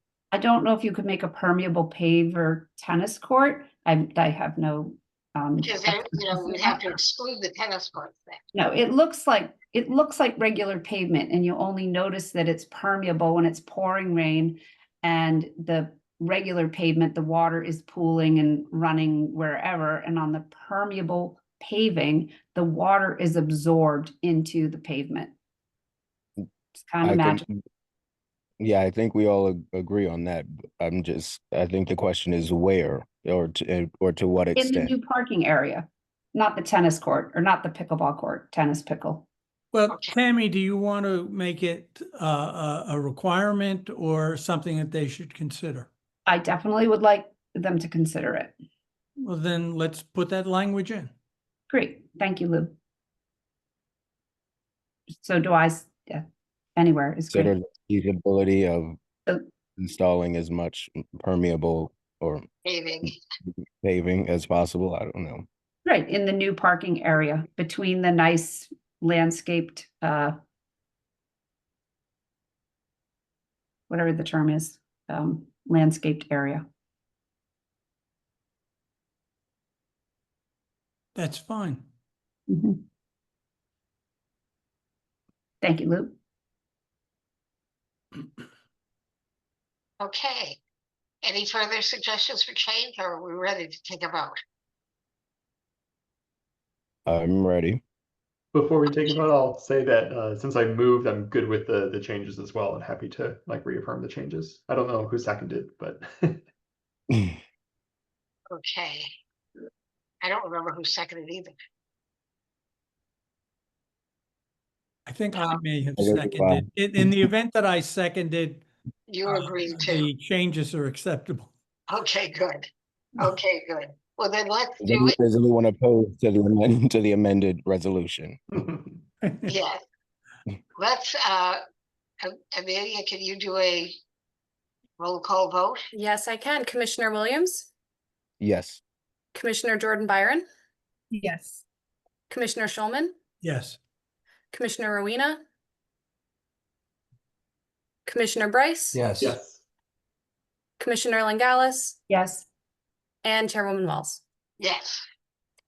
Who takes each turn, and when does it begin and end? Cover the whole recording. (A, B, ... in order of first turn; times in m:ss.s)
0:00.3-0:06.9 A
0:05.6-0:08.4 B
0:08.5-0:25.3 A
0:26.7-0:27.4 A
0:27.0-0:27.5 C
0:28.6-0:34.9 C
0:34.6-0:39.3 A
0:39.7-0:45.9 D
0:39.9-0:40.2 B
0:46.3-0:48.5 A
0:49.2-0:51.1 D
0:51.7-0:52.7 A
0:55.2-0:57.5 A
0:57.3-0:59.0 C
0:59.8-1:02.5 C
1:02.6-1:03.1 B
1:03.8-1:05.4 C
1:05.8-1:10.4 A
1:13.9-1:16.7 A
1:21.1-1:21.8 D
1:22.5-1:22.8 A
1:25.6-1:26.2 A
1:30.0-1:30.6 B
1:31.2-1:34.4 B
1:37.0-1:37.8 C
1:38.5-1:46.4 E
1:48.5-1:49.1 B
1:50.2-1:51.5 B
1:55.1-1:58.6 D
1:56.0-1:56.6 C
1:59.1-2:00.1 B
1:59.2-2:01.5 D
2:01.9-2:05.2 B
2:04.8-2:08.4 C
2:08.6-2:08.9 E
2:09.2-2:09.5 D
2:09.5-2:09.8 B
2:10.8-2:11.6 B
2:12.2-2:14.0 B
2:15.0-2:15.9 B
2:15.9-2:17.7 F
2:18.4-2:18.8 C
2:19.3-2:20.4 F
2:21.1-2:21.6 A
2:22.3-2:23.1 F
2:23.4-2:23.8 D
2:24.5-2:25.4 F
2:28.1-2:29.0 F
2:29.2-2:29.6 E
2:30.8-2:32.0 F
2:32.1-2:32.5 A
2:33.2-2:34.2 F
2:34.6-2:35.0 B